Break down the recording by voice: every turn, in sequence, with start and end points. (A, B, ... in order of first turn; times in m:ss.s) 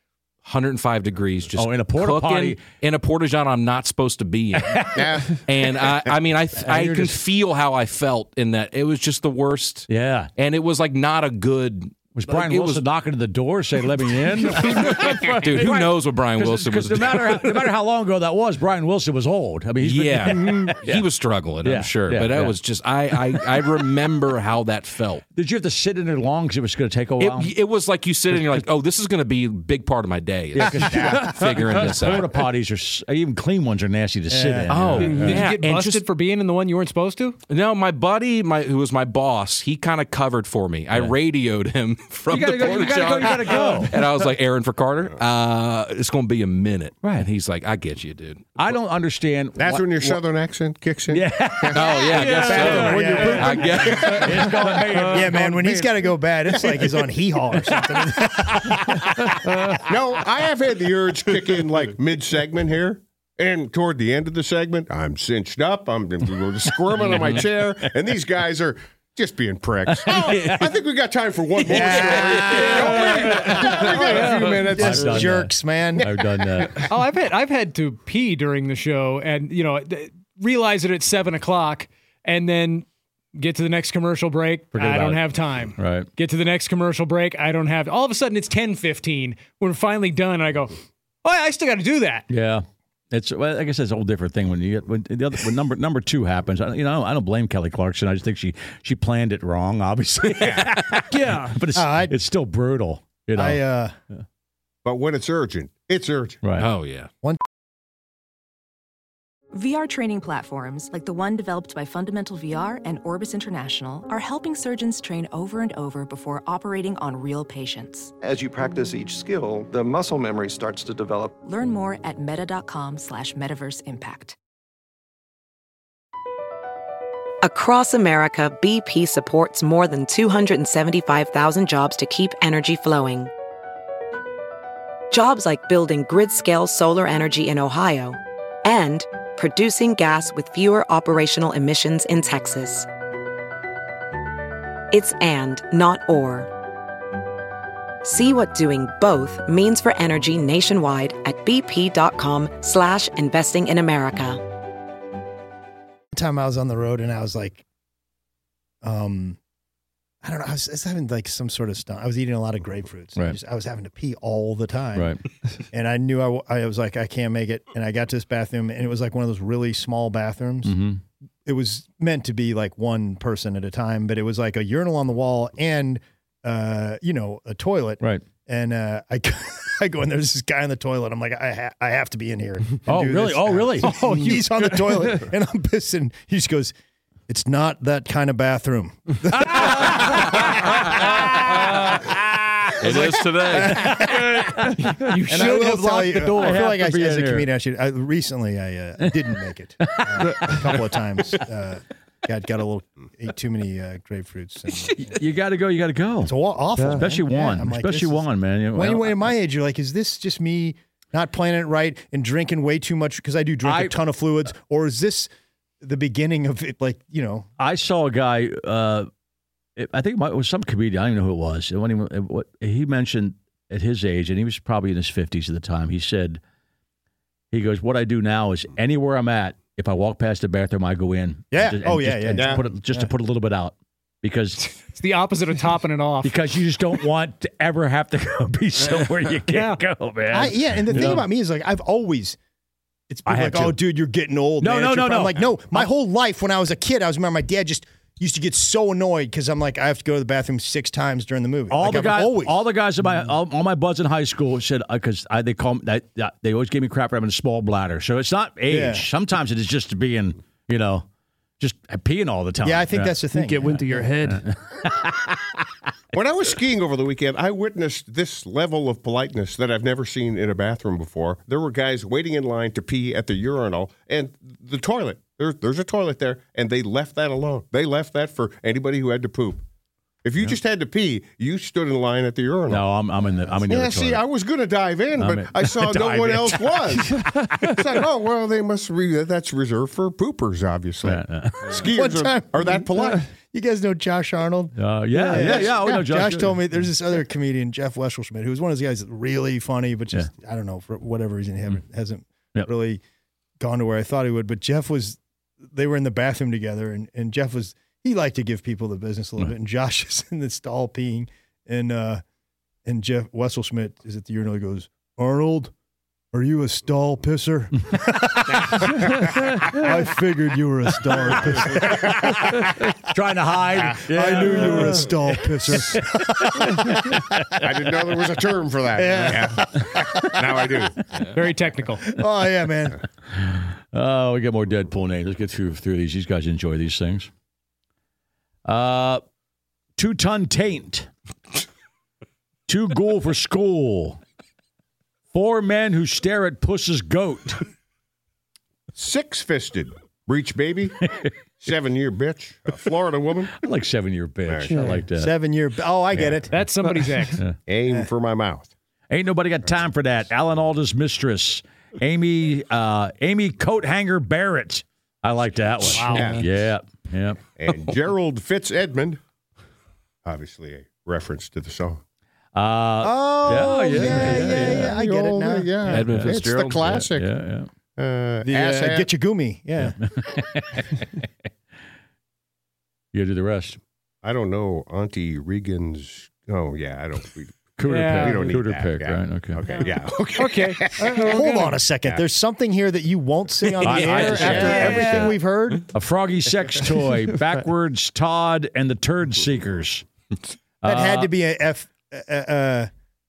0:00.4-0:12.8 A
0:01.6-0:02.6 B
0:04.9-0:06.2 C
0:06.7-0:07.1 B
0:09.9-0:10.3 B
0:12.1-0:21.1 B
0:14.5-0:17.7 A
0:19.8-0:25.2 A
0:21.6-0:22.6 B
0:23.2-0:23.6 B
0:25.4-0:27.6 B
0:27.2-0:32.3 A
0:28.3-0:28.6 B
0:30.6-0:35.5 B
0:30.6-0:32.2 C
0:34.3-0:35.0 D
0:34.7-0:36.0 A
0:35.0-0:37.4 E
0:37.5-0:48.4 A
0:42.3-0:44.1 B
0:48.6-0:50.2 B
0:49.6-0:52.1 C
0:51.1-0:55.6 B
0:51.7-0:54.5 A
0:52.1-0:54.1 F
0:52.4-0:53.8 D
0:53.8-0:57.1 C
0:55.0-0:59.7 D
0:59.9-1:15.4 C
1:07.1-1:07.4 A
1:09.9-1:10.7 B
1:11.6-1:16.1 D
1:12.5-1:13.8 A
1:13.7-1:14.7 E
1:14.7-1:16.9 B
1:16.0-1:16.9 C
1:16.9-1:32.2 E
1:24.7-1:26.1 B
1:32.3-1:43.6 B
1:40.4-1:40.6 C
1:41.1-1:41.6 F
1:41.7-1:42.2 D
1:43.4-1:43.9 D
1:44.8-1:46.4 C
1:46.4-1:46.7 B
1:46.6-1:47.1 A
1:49.5-1:58.1 G
1:58.2-2:01.3 H
2:01.4-2:04.4 G
2:07.4-2:13.3 I
2:15.1-2:22.9 I
2:24.9-2:26.5 I
2:28.0-2:34.4 I
2:36.1-2:37.6 D
2:38.8-2:39.4 D
2:40.2-2:45.1 D
2:45.0-2:45.2 B
2:45.7-2:50.7 D
2:50.6-2:51.0 B
2:51.5-3:06.7 D
3:02.9-3:04.1 B
3:03.9-3:04.5 E
3:07.3-3:14.6 D
3:12.8-3:14.0 A
3:14.6-3:16.6 E
3:15.3-3:25.1 D
3:16.4-3:17.5 B
3:19.8-3:20.7 B
3:24.9-3:26.4 B
3:26.2-3:35.3 D
3:26.8-3:27.1 F
3:26.9-3:29.3 B
3:33.6-3:34.0 B
3:35.8-3:37.5 D
3:37.6-3:39.1 B
3:39.8-3:46.4 B
3:47.5-3:54.6 B
3:51.5-3:53.1 D
3:52.4-3:52.6 C
3:54.6-3:56.5 E
3:56.2-4:01.3 B
3:59.5-3:59.8 E
4:00.3-4:02.4 D
4:03.1-4:12.6 D
4:03.2-4:03.8 B
4:04.6-4:05.9 B
4:11.7-4:21.0 B
4:18.7-4:19.1 D
4:21.6-4:23.2 B
4:22.6-4:24.0 D
4:23.3-4:24.5 F
4:26.1-4:39.6 C
4:40.2-4:42.9 C
4:42.7-4:44.2 B
4:43.6-4:47.1 C
4:45.1-4:47.0 B
4:47.8-4:53.2 C
4:51.0-4:51.8 B
4:51.6-5:03.0 D
4:54.8-4:56.6 B
4:55.4-4:55.8 C
5:03.6-5:05.2 D
5:05.7-5:12.2 D
5:12.9-5:15.7 D
5:16.3-5:22.1 D
5:21.8-5:22.6 B
5:23.1-5:25.8 B
5:24.1-5:27.5 D
5:27.6-5:31.0 C
5:29.0-5:30.5 D
5:31.3-5:32.0 E
5:32.1-5:33.0 D
5:33.4-5:37.3 B
5:38.6-5:39.2 B
5:40.0-5:41.1 B
5:42.7-5:44.2 B
5:45.3-5:47.6 B
5:49.0-5:51.0 C
5:51.6-5:53.5 C
5:53.6-5:55.3 B
5:54.5-5:54.9 C
5:54.7-5:55.0 F
5:55.1-5:56.6 D
5:56.5-5:57.4 E
5:57.6-5:58.7 C
5:59.1-6:07.4 B
6:05.8-6:06.4 E
6:06.0-6:06.5 C
6:07.6-6:09.2 C
6:10.2-6:12.0 C
6:12.5-6:15.0 B
6:13.0-6:16.2 D
6:13.5-6:17.3 C
6:15.9-6:16.8 A
6:15.9-6:17.7 B
6:18.0-6:19.1 C
6:18.5-6:19.9 D
6:19.8-6:20.9 B
6:23.1-6:23.8 B
6:24.2-6:31.4 C
6:27.8-6:29.6 B
6:27.8-6:28.5 E
6:30.4-6:31.7 E
6:31.0-6:35.9 D
6:33.8-6:35.1 B
6:33.8-6:35.3 C
6:35.9-6:40.0 B
6:40.8-6:41.3 B
6:40.8-6:42.9 D